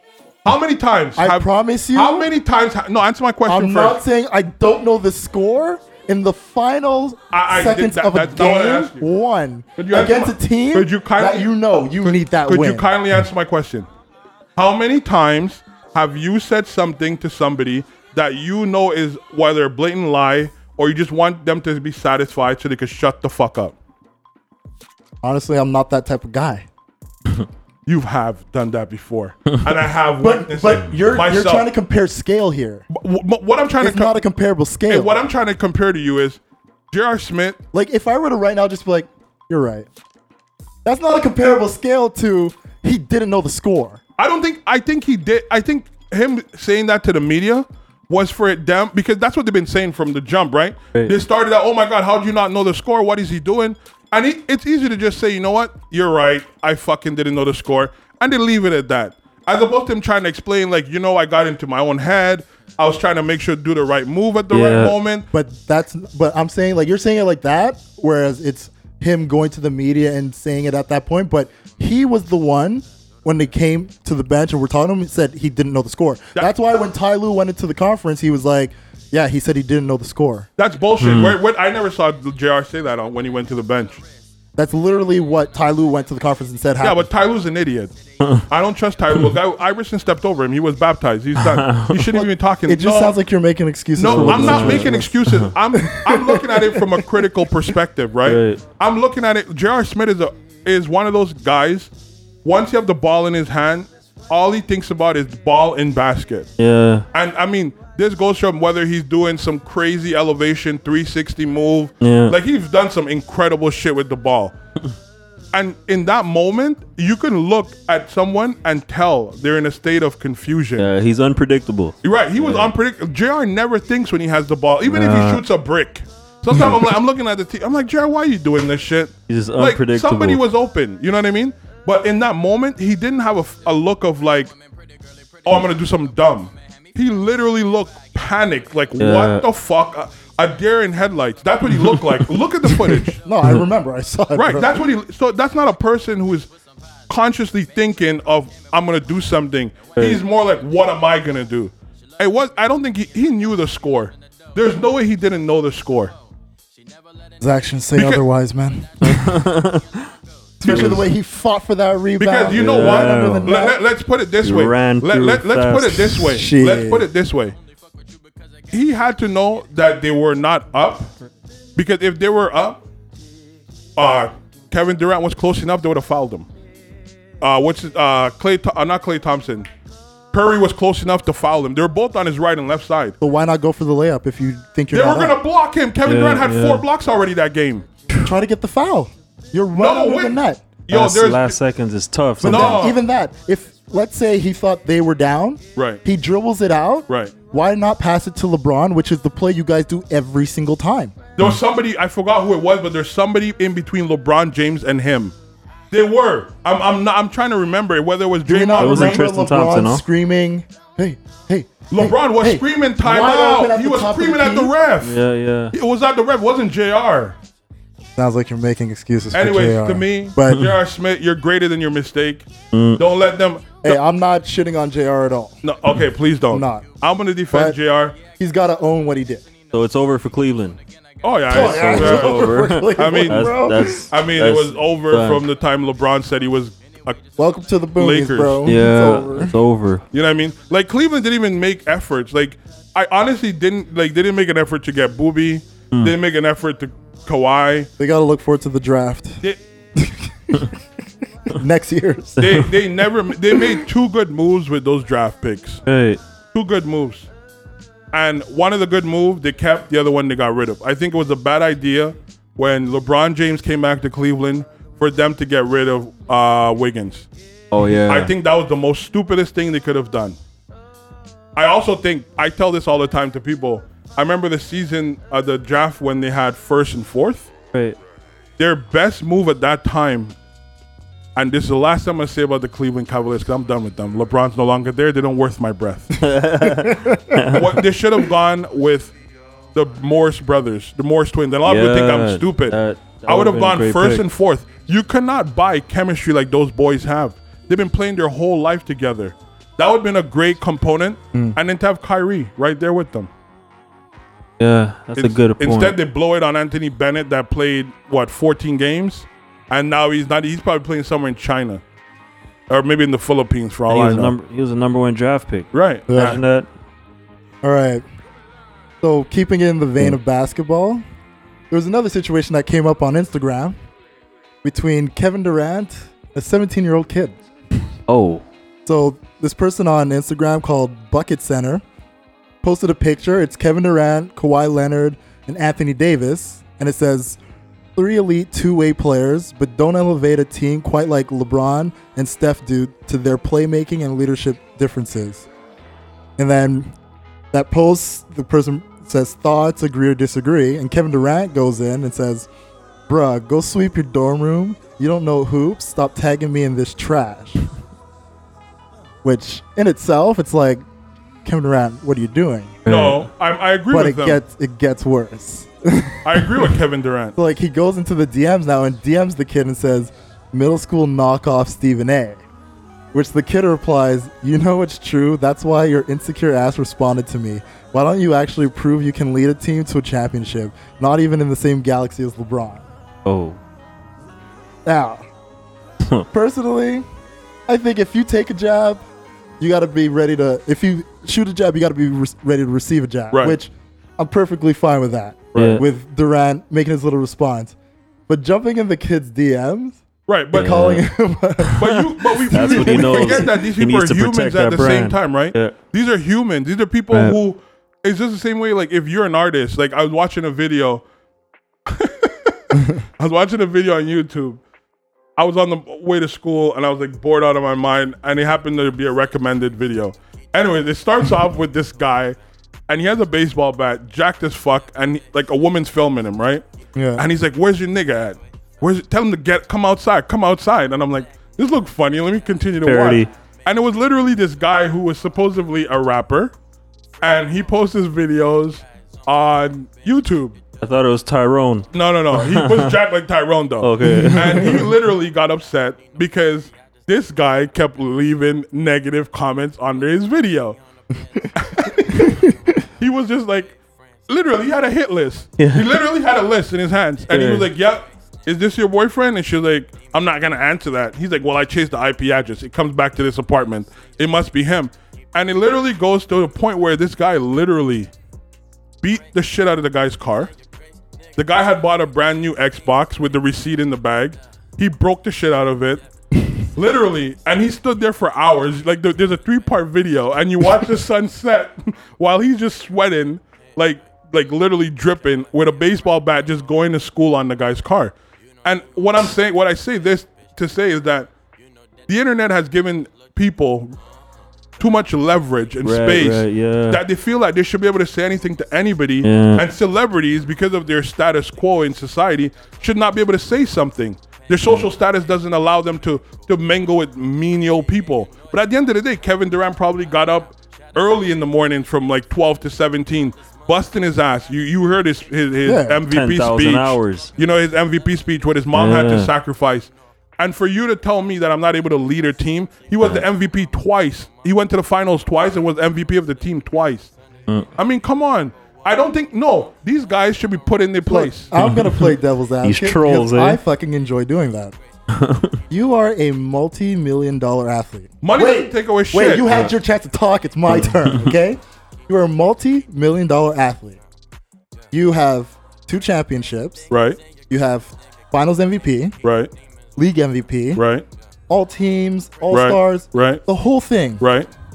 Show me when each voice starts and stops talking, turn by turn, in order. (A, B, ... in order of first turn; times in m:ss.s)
0:00.4-0:04.0 A
0:01.2-0:02.3 B
0:03.5-0:12.9 B
0:07.3-0:09.1 A
0:09.8-0:11.5 A
0:12.0-0:13.9 A
0:14.6-0:23.7 A
0:25.2-0:26.6 B
0:27.8-0:31.7 A
0:30.2-0:32.8 B
0:32.9-0:34.2 A
0:33.8-0:35.2 B
0:34.9-0:36.4 A
0:36.9-0:37.6 A
0:37.7-0:39.9 B
0:40.8-0:44.0 B
0:44.2-1:05.3 A
1:04.5-1:04.9 C
1:05.3-1:20.5 B
1:20.6-1:24.0 A
1:21.0-1:21.4 C
1:24.6-1:27.1 B
1:26.8-1:33.2 A
1:31.4-1:32.1 C
1:32.7-1:37.2 B
1:34.0-1:41.9 A
1:34.1-1:35.5 C
1:38.2-1:38.6 C
1:42.4-1:46.5 A
1:46.6-1:47.0 C
1:47.1-1:54.5 A
1:52.0-1:52.4 C
1:55.5-2:00.9 A
2:00.8-2:02.7 C
2:02.0-2:14.5 A
2:04.8-2:05.4 C
2:09.3-2:10.4 C
2:15.4-2:23.2 A
2:19.0-2:19.4 C
2:22.9-2:24.8 B
2:24.3-2:26.5 A
2:27.1-2:36.1 A
2:37.4-2:39.5 B
2:37.9-2:38.2 A
2:39.0-2:40.0 C
2:40.6-2:43.8 B
2:40.6-2:41.0 A
2:40.6-2:41.0 C
2:42.2-2:47.6 A
2:42.5-2:43.6 C
2:44.4-2:46.3 C
2:46.2-2:47.0 B
2:48.7-2:51.1 A
2:51.8-2:52.8 A
2:54.0-2:56.5 A
2:57.4-2:59.7 A
3:00.3-3:03.2 A
3:03.2-3:05.4 B
3:04.9-3:07.8 A
3:06.0-3:06.8 C
3:08.2-3:10.7 B
3:09.8-3:11.6 A
3:10.9-3:12.9 C
3:12.4-3:21.1 B
3:12.4-3:13.0 A
3:15.8-3:16.0 A
3:17.1-3:17.3 A
3:21.4-3:25.3 A
3:25.9-3:29.2 A
3:28.4-3:34.7 B
3:28.8-3:30.0 C
3:31.9-3:35.2 A
3:35.0-3:35.7 C
3:35.7-3:37.4 A
3:38.2-3:40.7 B
3:39.3-3:44.0 A
3:42.7-3:43.0 C
3:43.8-3:45.6 B
3:45.6-3:48.2 A
3:46.5-3:46.8 B
3:47.5-3:47.8 B
3:48.4-3:49.4 B
3:49.7-3:50.8 C
3:51.2-3:57.2 A
3:51.5-3:54.1 B
3:51.5-3:55.4 C
3:57.4-3:59.5 B
3:58.0-3:58.7 A
3:58.6-4:00.0 C
4:00.1-4:07.9 A
4:08.0-4:09.4 B
4:10.0-4:10.8 B
4:11.5-4:12.6 B
4:12.4-4:15.8 A
4:13.5-4:13.8 B
4:15.9-4:16.2 C
4:16.5-4:17.3 A
4:18.1-4:27.3 A
4:27.7-4:28.3 C
4:28.0-4:30.4 A
4:31.5-4:37.5 A
4:38.6-4:40.3 A
4:41.3-4:46.3 A
4:46.2-4:47.8 C
4:46.6-4:47.4 B
4:47.4-4:49.1 A
4:49.7-5:03.3 A
4:51.6-4:54.2 C
5:04.6-5:06.0 C
5:05.2-5:11.8 A
5:12.7-5:14.3 A
5:13.9-5:16.7 C
5:15.7-5:16.4 A
5:16.1-5:16.4 B
5:17.6-5:18.0 B
5:19.0-5:21.0 B
5:21.7-5:23.8 B
5:24.6-5:27.4 B
5:28.1-5:28.4 C
5:28.8-5:31.8 B
5:32.6-5:37.4 B
5:38.0-5:45.5 B
5:46.4-5:46.9 B
5:47.5-5:52.5 B
5:53.1-5:57.6 B
5:59.2-6:00.8 B
6:01.4-6:02.8 B
6:02.8-6:03.2 C
6:02.8-6:04.4 A
6:03.9-6:06.7 B
6:06.2-6:07.4 A
6:07.4-6:12.4 B
6:13.1-6:22.8 B
6:23.2-6:23.6 C
6:24.8-6:25.2 B
6:26.3-6:27.0 B
6:27.7-6:29.0 B
6:29.6-6:37.7 B
6:33.3-6:33.6 A
6:35.5-6:35.8 A
6:35.5-6:35.8 C
6:38.3-6:40.0 B
6:40.3-6:40.8 A
6:40.5-6:41.0 C
6:40.5-6:43.5 B
6:41.6-6:45.8 C
6:41.8-6:51.0 A
6:47.1-6:47.4 C
6:51.9-6:54.6 A
6:55.4-7:02.4 A
7:02.9-7:06.6 A
7:06.9-7:07.2 B
7:07.2-7:16.5 A
7:12.8-7:13.3 C
7:17.2-7:20.6 A
7:20.8-7:22.9 C
7:21.9-7:30.8 A
7:23.8-7:24.9 C
7:24.0-7:24.7 B
7:31.4-7:32.8 B
7:31.6-7:32.4 A
7:33.0-7:33.7 A
7:34.3-7:48.1 A
7:35.6-7:35.9 C
7:37.3-7:37.7 C
7:49.0-7:50.5 A
7:51.4-7:56.0 A
7:56.7-8:11.3 A
8:12.1-8:13.9 A
8:14.8-8:47.1 A
8:15.8-8:17.0 C
8:19.2-8:19.6 C
8:35.6-8:36.0 B
8:36.1-8:37.3 C
8:38.7-8:39.3 C
8:47.8-8:51.5 A
8:51.1-8:54.8 B
8:51.6-8:52.1 C
8:52.6-8:53.6 C
8:55.1-8:55.6 C
8:55.7-9:04.0 B
8:58.2-8:59.7 A
9:00.7-9:01.3 C
9:04.9-9:06.9 B
9:06.9-9:07.2 A
9:07.5-9:09.2 B
9:09.2-9:09.5 A
9:10.0-9:10.8 B
9:10.7-9:11.0 A
9:11.5-9:14.2 B
9:12.5-9:13.4 A
9:14.2-9:14.5 A